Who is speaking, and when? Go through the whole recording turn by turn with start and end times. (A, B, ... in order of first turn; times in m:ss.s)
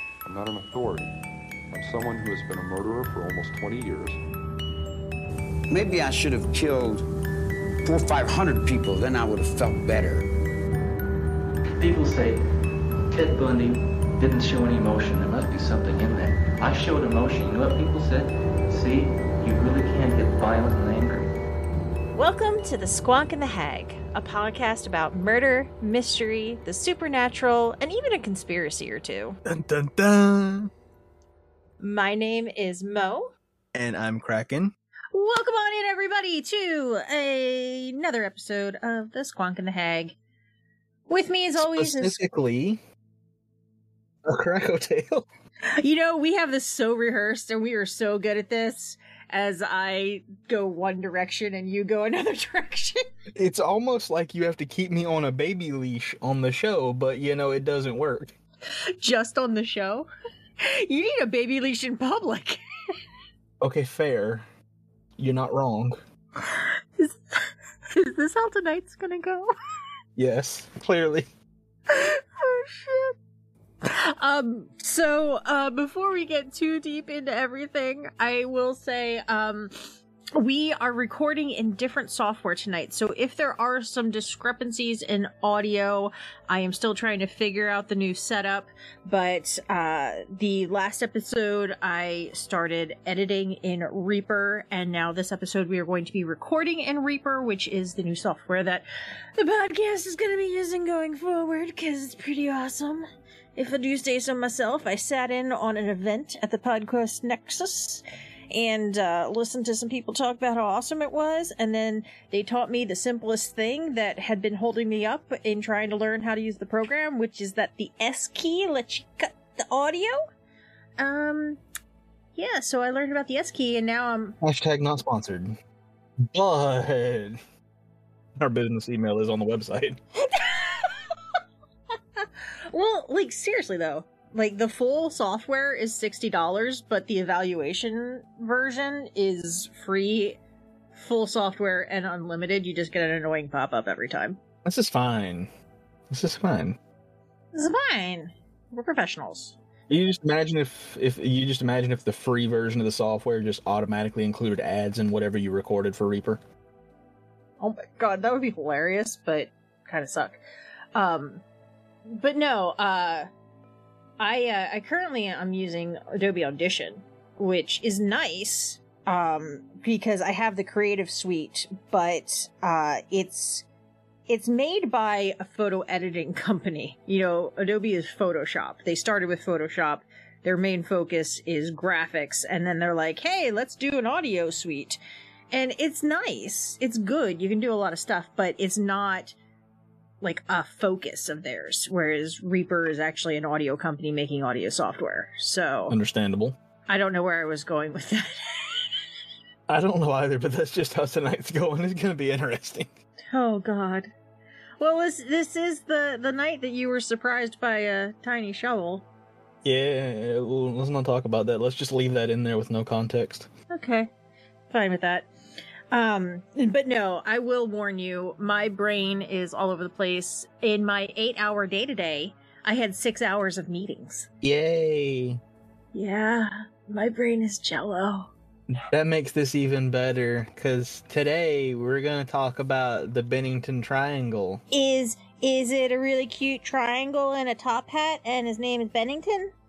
0:00.2-0:01.1 A
0:01.7-0:04.2 A
0:05.7-0:07.0 B
0:07.8-0:10.2 B
0:11.8-0:12.4 C
0:13.1-0:21.3 C
0:22.1-0:29.4 D
0:29.4-0:30.7 E
0:31.8-0:33.3 D
0:33.7-0:34.7 E
0:35.1-0:40.2 D
0:41.1-0:42.2 D
0:41.6-0:42.8 E
0:44.2-0:45.2 E
0:45.7-0:53.0 D
0:53.3-0:58.4 E
0:58.7-1:00.1 D
1:00.6-1:02.6 D
1:03.6-1:04.4 E
1:05.2-1:06.0 E
1:06.4-1:07.4 D
1:07.9-1:09.5 D
1:10.2-1:11.3 E
1:11.9-1:13.1 D
1:13.8-2:00.2 D
2:01.0-2:01.6 D
2:02.4-2:04.3 D
2:04.4-2:05.6 E
2:06.2-2:07.4 E
2:08.4-2:10.0 E
2:10.3-2:11.1 D
2:12.2-2:20.4 D
2:20.9-2:24.4 D
2:24.6-2:25.5 E
2:26.1-2:26.8 E
2:27.5-2:29.6 D
2:29.9-2:36.4 E
2:37.6-2:40.4 D
2:40.9-2:41.4 D
2:42.1-2:43.3 D
2:44.2-2:53.6 D
2:54.3-3:05.0 D
3:05.5-3:09.3 D
3:10.2-3:16.0 D
3:15.9-3:16.6 E
3:16.9-3:18.9 D
3:19.7-3:22.9 E
3:23.3-3:24.1 D
3:24.8-3:29.0 D
3:29.6-3:33.5 E
3:33.7-3:34.1 D
3:34.7-3:35.3 D
3:35.9-3:44.3 D
3:44.4-3:45.4 E
3:45.9-3:48.3 D
3:48.7-3:54.6 E
3:54.7-3:59.5 D